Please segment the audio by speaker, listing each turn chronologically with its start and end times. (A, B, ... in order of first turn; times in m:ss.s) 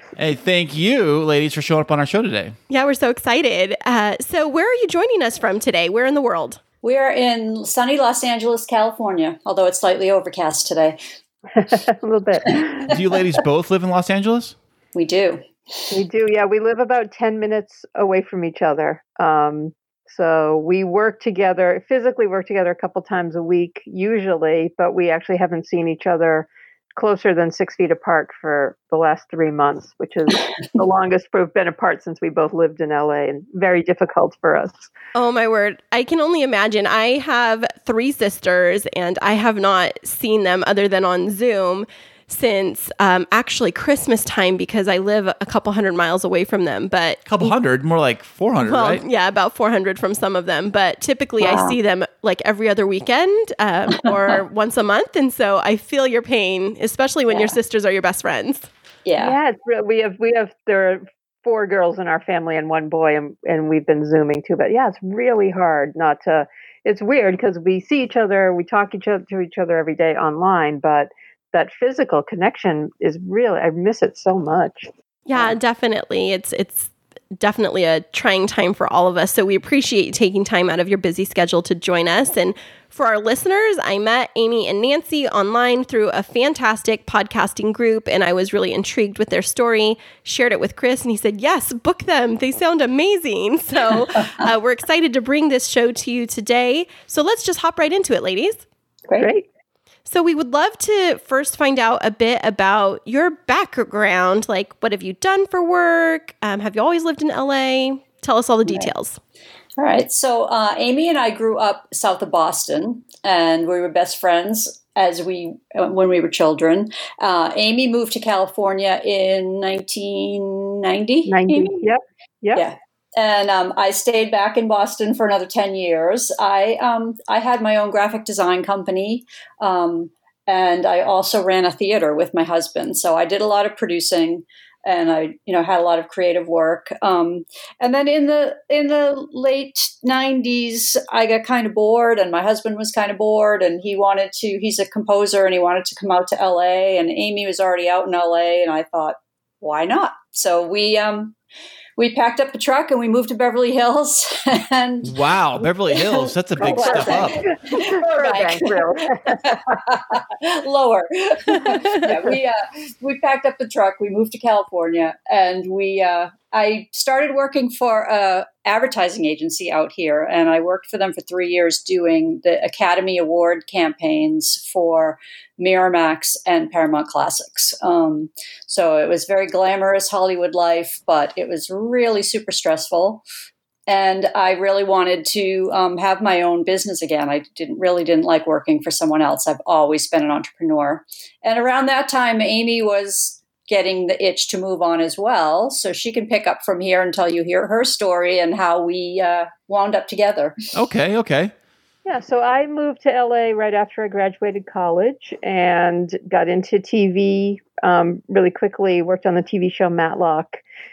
0:00.2-0:02.6 A
0:02.7-0:06.6 B
0:06.8-0:11.0 C
0:11.6-0:12.9 D
0:12.9-0:14.6 A
0:14.9-0:15.9 C
0:15.9-0:34.9 D
0:35.1-0:47.5 B
0:47.2-0:49.0 A
0:48.6-0:58.7 B
0:51.4-0:51.8 C
0:57.3-0:57.5 C
0:59.0-0:59.3 C
0:59.2-1:15.5 D
1:15.3-1:38.6 B
1:39.2-1:39.5 D
1:40.1-1:49.2 B
1:48.6-1:48.9 C
1:49.8-2:01.7 C
2:01.3-2:02.6 D
2:02.5-2:31.4 C
2:32.0-3:03.2 C
2:35.0-2:37.4 A
2:36.6-2:39.8 D
3:03.9-3:20.6 C
3:20.7-3:21.5 A
3:22.0-3:30.6 D